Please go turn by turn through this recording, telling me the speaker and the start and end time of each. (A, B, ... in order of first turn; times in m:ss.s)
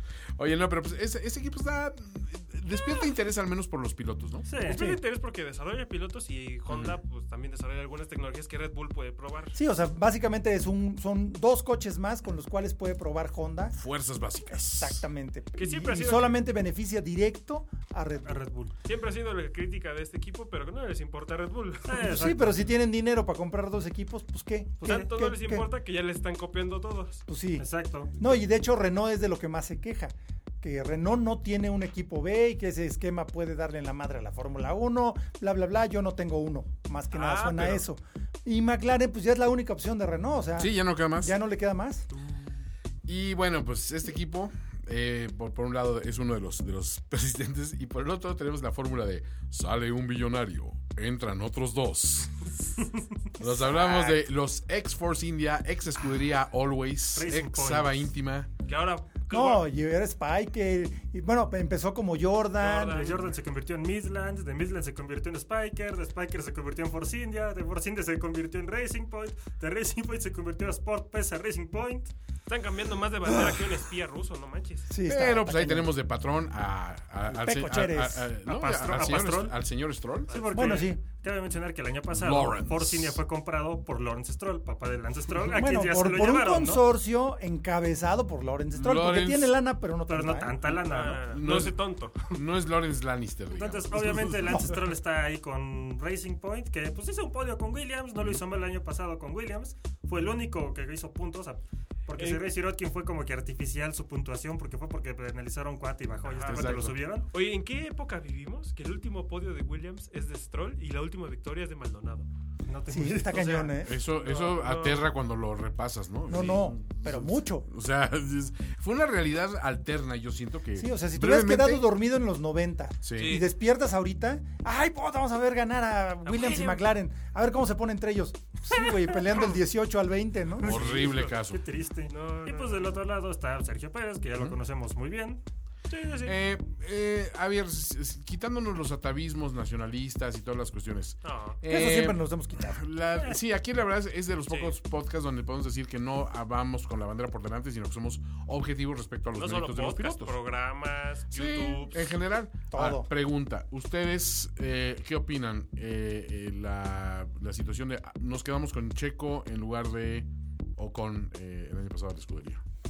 0:00.4-0:04.4 A
0:04.4-0:04.8 B
0:04.6-0:09.6 C
0:04.7-0:05.0 D
0:06.7-0:07.0 A
0:09.6-0:13.8 D
0:13.7-0:15.0 A
0:14.5-0:18.4 D
0:15.6-0:16.3 C
0:18.2-0:18.7 B
0:18.8-0:22.3 C
0:21.9-0:22.7 B
0:22.1-0:25.7 D
0:24.8-0:27.2 C
0:27.3-0:42.0 D
0:27.6-0:28.2 B
0:37.1-0:37.8 C
0:40.6-0:41.3 A
0:43.0-0:52.4 A
0:53.4-0:58.5 A
0:53.4-0:54.2 D
0:57.1-0:58.1 B
0:58.6-0:59.6 C
0:59.3-1:03.0 D
1:02.6-1:03.3 C
1:02.9-1:12.1 B
1:12.5-1:14.9 C
1:14.9-1:15.9 D
1:15.0-1:20.4 A
1:17.3-1:18.3 D
1:18.4-1:19.6 B
1:20.3-1:20.9 C
1:20.3-1:26.8 B
1:20.5-1:21.0 D
1:22.1-1:23.2 A
1:25.4-1:30.6 D
1:28.7-1:29.6 A
1:30.1-1:31.3 B
1:30.7-1:32.4 C
1:31.0-1:34.6 A
1:33.5-1:47.3 B
1:34.4-1:34.8 D
1:42.2-1:42.5 C
1:46.2-1:46.7 C
1:46.5-1:47.0 A
1:47.3-1:52.3 C
1:52.7-1:53.6 B
1:52.9-1:54.0 D
1:53.2-1:55.0 C
1:53.8-2:01.9 A
1:56.3-1:57.7 D
2:00.8-2:10.7 D
2:03.0-2:03.4 A
2:03.2-2:03.4 C
2:06.2-2:06.8 C
2:10.6-2:11.3 C
2:10.6-2:11.6 A
2:10.7-2:15.4 B
2:12.1-2:13.0 C
2:15.9-2:16.4 C
2:16.2-2:30.3 A
2:21.2-2:21.6 C
2:21.7-2:22.8 D
2:29.3-2:32.0 C
2:31.3-2:42.6 A
2:32.7-2:33.1 D